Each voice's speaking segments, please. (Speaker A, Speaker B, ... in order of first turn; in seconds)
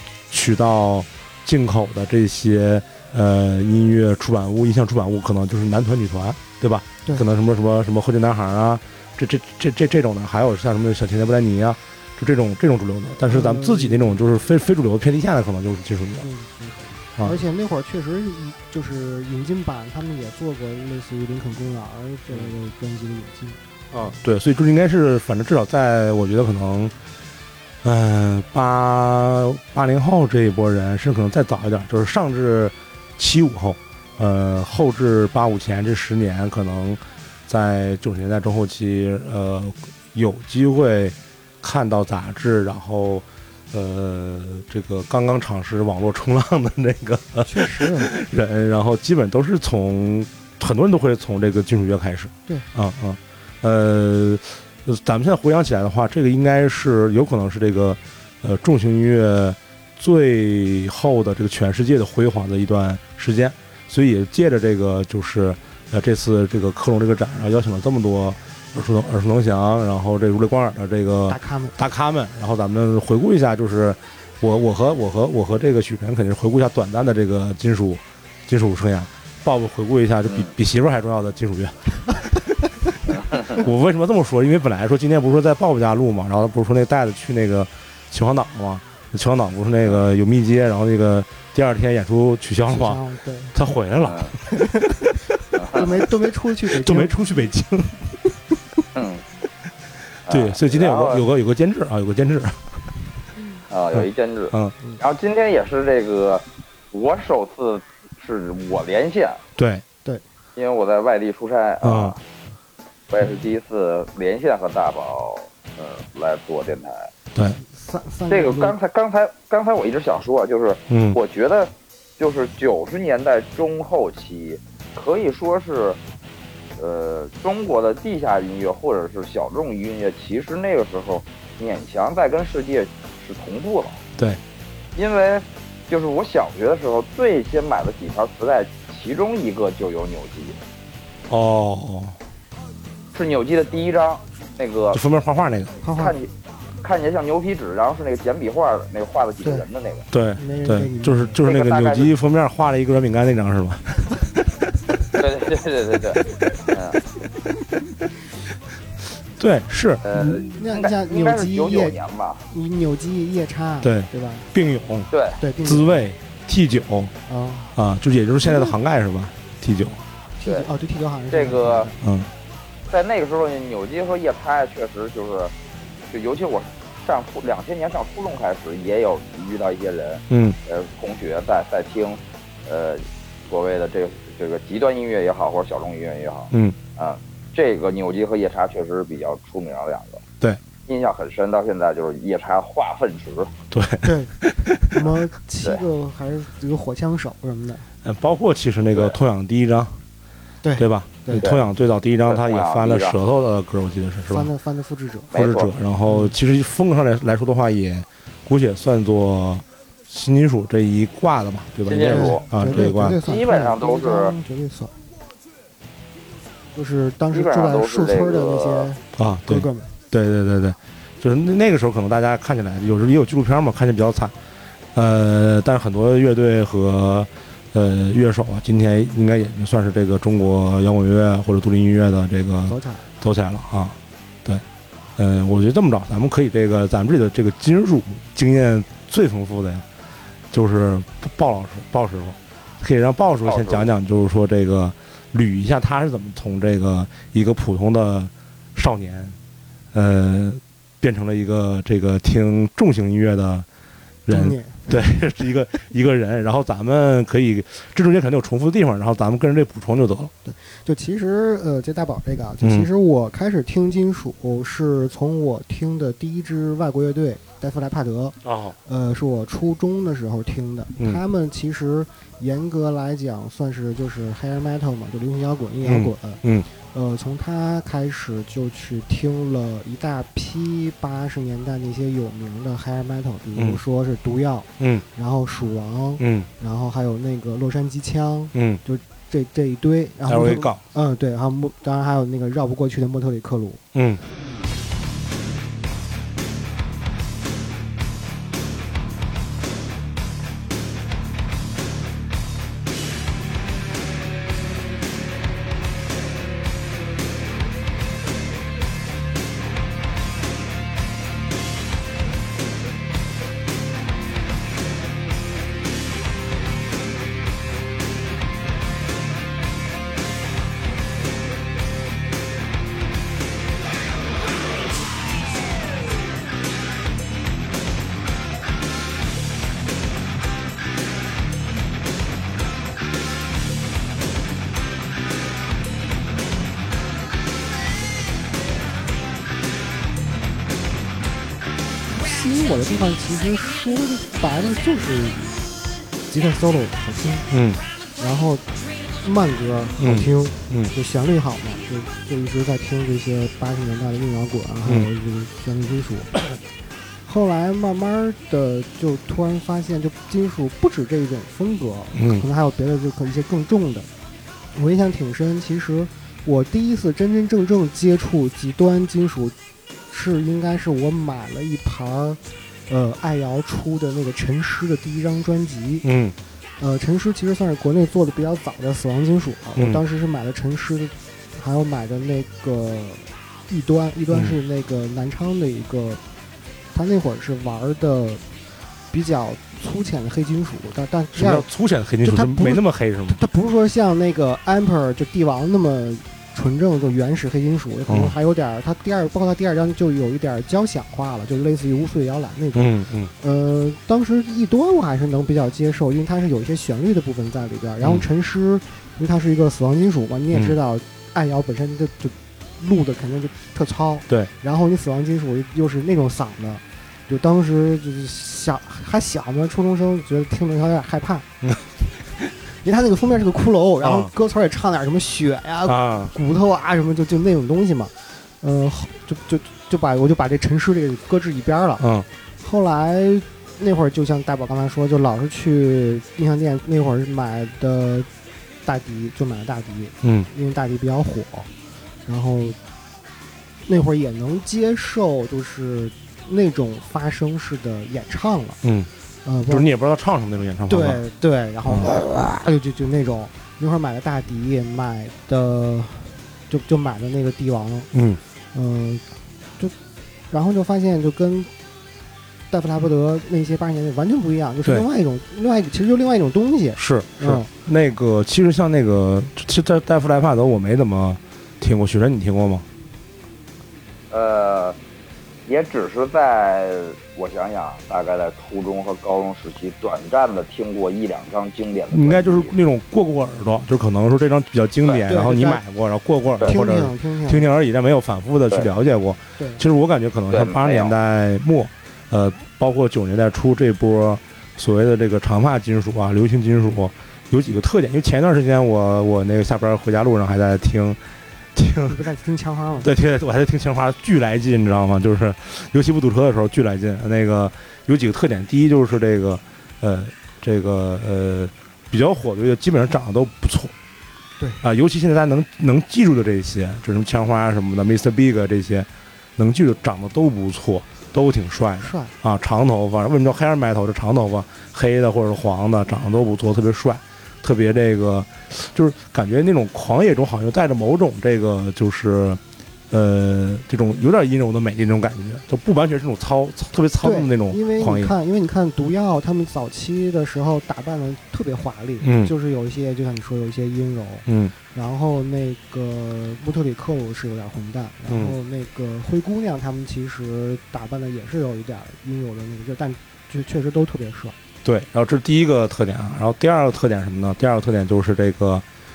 Speaker A: 0.3-16.3, 23.9-26.9, 27.8-82.4, 83.5-93.0, 93.5-94.4, 96.7-98.2, 100.3-102.8, 103.9-104.8, 109.6-109.8, 111.8-112.2, 120.9-121.2, 141.3-142.2, 144.9-145.8, 150.1-154.2, 159.4-160.4, 163.8-165.1, 165.6-167.1, 167.8-170.0, 172.0-172.3, 180.3-180.6, 186.5-186.8, 193.7-194.9, 198.0-200.0, 200.8-204.5, 205.3-213.2, 219.1-224.3, 224.9-234.6, 235.2-239.8, 240.5-249.4, 249.9-253.7, 254.3-260.3, 262.6-262.9, 268.4-268.8, 275.8-276.7, 283.6-283.8, 284.8-285.0, 286.2-286.5, 288.5-288.8, 290.3-290.8, 293.9-294.2, 347.5-347.8, 350.0-350.9, 362.1-362.4, 376.0-376.4, 391.3-393.4, 398.1-398.3, 402.8-403.3, 424.0-424.3, 425.9-426.3, 432.0-432.3, 440.2-440.5, 448.8-449.1, 449.7-451.2, 451.9-452.2, 458.1-458.4, 467.0-472.9, 482.1-501.2, 501.8-502.2, 503.0-513.9, 514.8-538.3, 542.2-542.5, 544.5-544.7, 548.3-548.6, 554.8-558.9
Speaker B: 13.2-14.1, 16.2-23.6, 47.5-48.1, 71.3-71.8, 92.7-93.5, 94.5-95.0, 95.7-97.2, 117.6-118.8, 145.8-146.2, 150.4-151.4, 160.6-162.0, 162.5-164.5, 165.4-166.1, 167.3-167.8, 170.4-172.0, 194.0-194.3, 194.9-197.9, 200.6-201.5, 204.3-205.3, 206.1-206.3, 212.1-214.9, 216.7-219.9, 232.7-233.1, 254.3-255.1, 260.4-293.8, 342.2-345.5, 346.3-347.5, 348.2-348.7, 349.2-356.4, 357.2-364.1, 364.7-369.6, 370.1-376.1, 376.8-386.2, 386.9-388.4, 389.1-391.7, 392.2-421.5, 422.8-432.1, 432.6-438.3, 438.9-441.7, 442.3-442.8, 443.9-448.8, 449.4-449.9, 450.9-458.1, 458.7-459.2, 460.5-461.7, 462.7-467.7, 485.3-485.8, 486.6-487.7, 502.1-503.1, 522.0-522.3, 537.2-554.5
Speaker C: 83.1-83.6, 94.0-94.3, 95.6-95.9, 99.0-99.2, 100.3-101.3, 103.7-109.4, 110.6-112.2, 113.1-117.1, 118.3-126.0, 126.8-134.0, 134.9-140.6, 143.1-145.0, 145.9-146.3, 146.8-150.1, 151.4-152.1, 155.2-157.0, 160.0-162.4, 165.1-165.4, 171.3-171.9, 172.9-175.5, 176.1-190.2, 190.9-193.5, 201.4-201.7, 202.3-203.2, 205.3-205.7, 211.8-214.4, 217.3-218.9, 243.4-243.9, 474.3-475.0, 475.7-482.7, 490.5-491.1